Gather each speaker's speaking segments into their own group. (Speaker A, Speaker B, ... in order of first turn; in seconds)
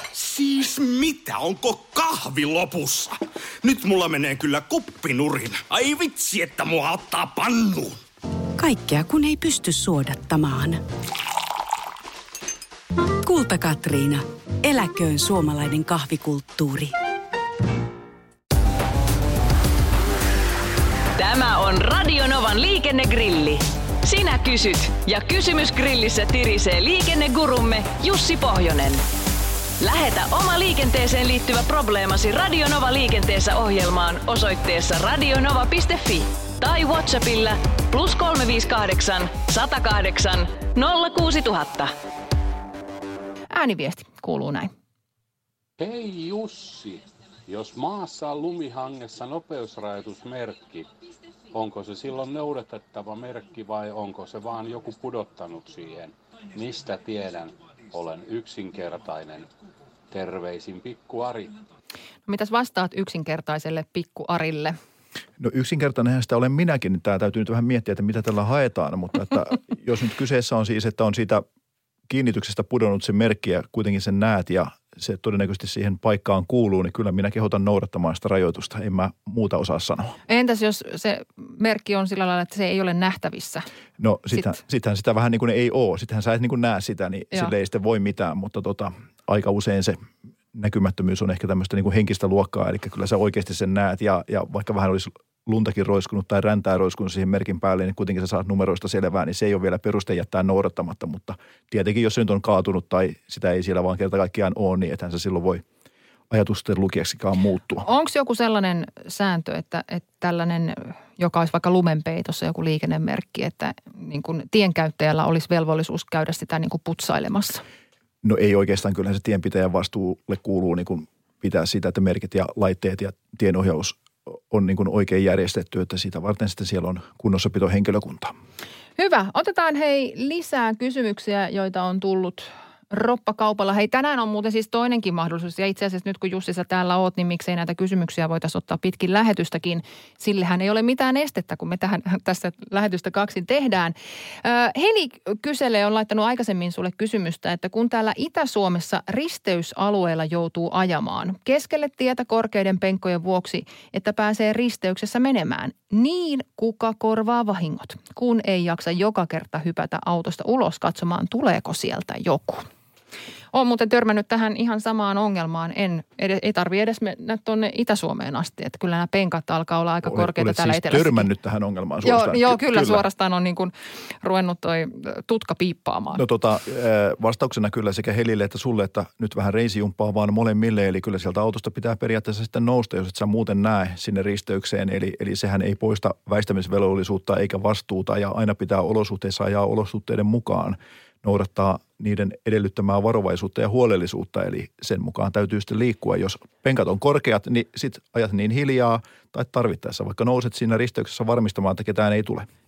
Speaker A: 0.1-8.0
Speaker B: 8.6-10.8, 13.2-16.9
Speaker C: 21.1-29.0, 29.8-41.9
Speaker D: 43.5-44.7, 62.3-64.7, 80.3-83.7, 107.8-117.6, 128.9-162.6, 163.5-171.3, 172.0-176.2
Speaker E: 45.8-50.9, 51.5-59.5, 60.1-61.6
Speaker F: 65.4-71.4, 72.1-80.2, 84.0-90.0, 90.5-105.6, 106.3-107.8, 118.2-128.3, 170.0-173.0, 176.1-202.5